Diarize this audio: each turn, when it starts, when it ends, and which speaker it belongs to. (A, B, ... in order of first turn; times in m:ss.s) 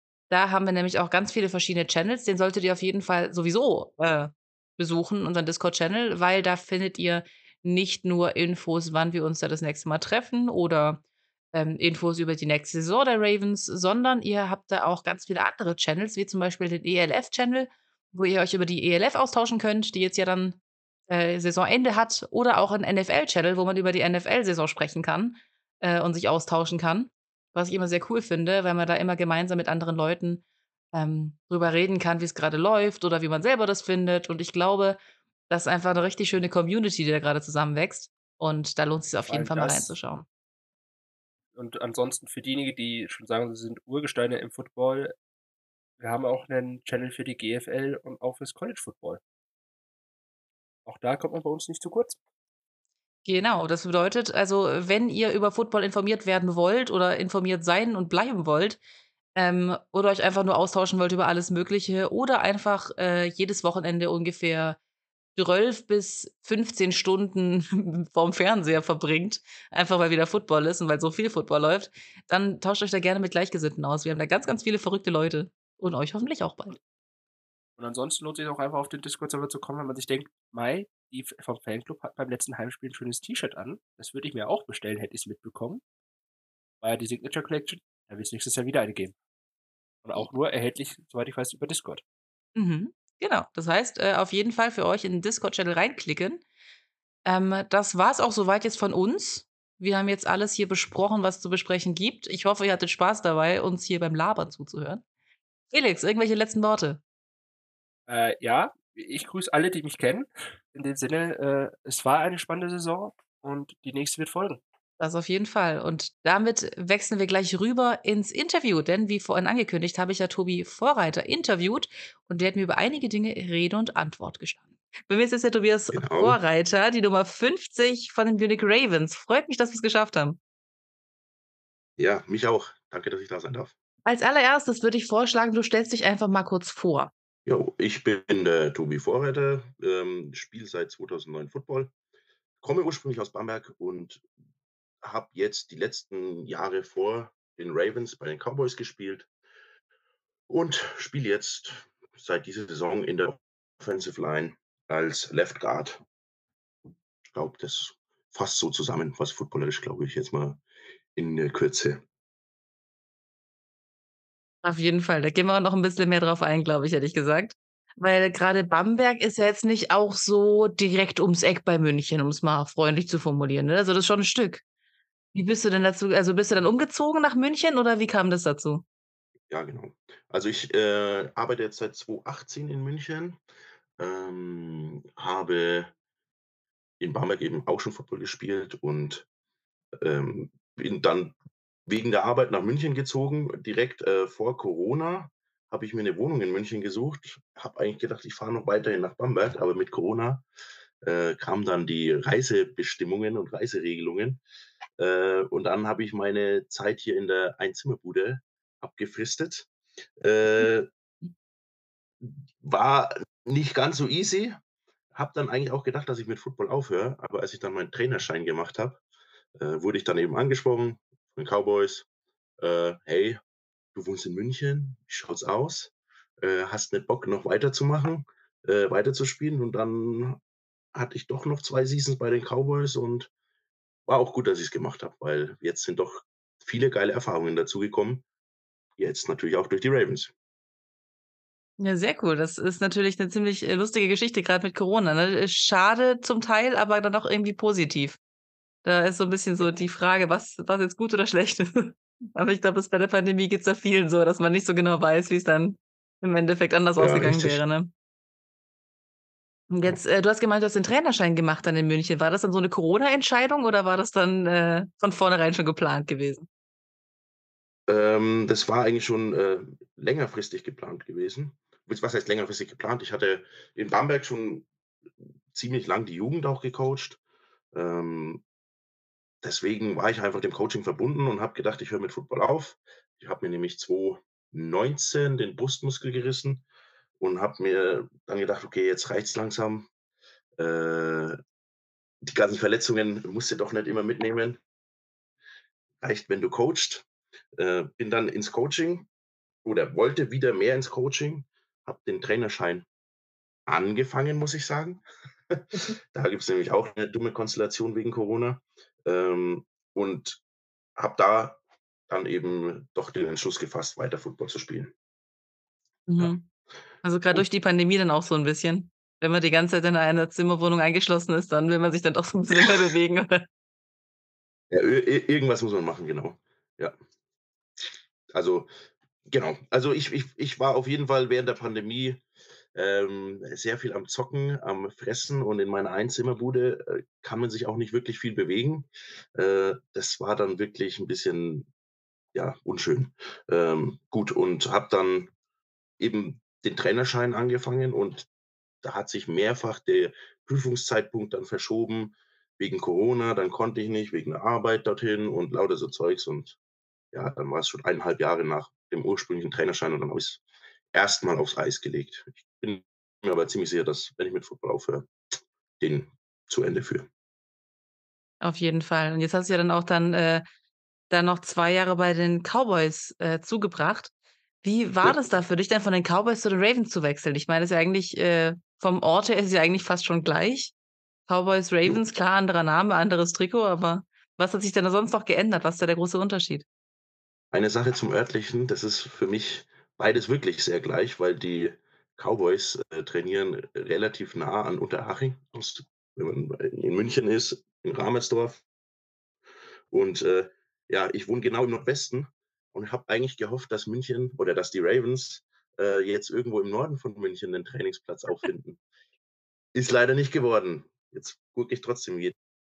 0:00.3-0:11.0 A
0:11.5-0:20.6 A
0:21.1-0:30.4 A
0:30.9-0:35.0 A
0:35.5-0:40.2 A
0:39.3-0:39.9 B
0:41.5-0:45.1 B
0:46.0-0:49.2 B
0:50.8-0:52.2 B
0:53.2-0:58.8 A
0:59.4-1:04.8 A
1:05.4-1:16.8 A
1:17.8-1:25.8 B
1:26.8-1:29.1 B
1:30.0-1:32.0 B
1:32.6-1:36.4 A
1:37.2-1:45.0 A
1:45.7-1:47.0 A
1:48.1-1:54.6 B
1:55.0-2:10.4 A
2:05.9-2:06.4 C
2:12.0-2:13.7 C
2:14.0-2:17.1 A
2:17.4-2:21.9 C
2:22.6-2:24.2 C
2:25.0-2:29.3 C
2:30.5-2:36.0 C
2:37.3-2:40.6 C
2:41.2-2:42.0 C
2:44.6-2:54.6 A
2:55.3-2:58.8 A
2:59.5-3:03.4 C
3:04.0-3:05.9 C
3:07.0-3:09.2 C
3:10.0-3:11.3 C
3:11.9-3:20.4 C
3:21.0-3:24.4 C
3:25.0-3:29.7 C
3:30.2-3:30.9 C
3:32.2-3:34.6 C
3:35.1-3:39.0 C
3:39.6-3:42.0 C
3:42.6-3:43.4 C
3:43.9-3:50.4 C
3:50.9-3:53.3 C
3:54.1-3:58.2 C
3:59.0-4:00.3 C
4:01.8-4:08.2 A
4:08.8-4:17.9 A
4:17.0-4:17.6 C
4:19.7-4:26.5 A
4:27.9-4:34.7 C
4:35.5-4:37.2 C
4:37.7-4:38.4 C
4:39.4-4:46.6 C
4:47.2-4:49.9 C
4:50.6-4:51.4 C
4:52.2-4:54.6 C
4:56.0-4:57.0 C
4:57.6-4:59.1 C
4:59.6-5:02.8 C
5:03.7-5:10.4 C
5:11.0-5:14.9 C
5:16.1-5:16.4 A
5:17.0-5:23.4 A
5:24.7-5:27.0 C
5:28.3-5:28.7 C
5:29.3-5:32.2 C
5:32.7-5:41.7 C
5:42.3-5:45.3 C
5:46.0-5:48.3 C
5:48.8-5:56.6 C
5:57.1-6:00.4 C
6:00.9-6:05.1 C
6:05.8-6:07.1 C
6:08.4-6:10.4 A
6:11.1-6:14.1 A
6:14.6-6:20.7 A
6:21.3-6:26.6 A
6:27.5-6:38.6 C
6:39.9-6:48.8 C
6:49.7-6:52.4 C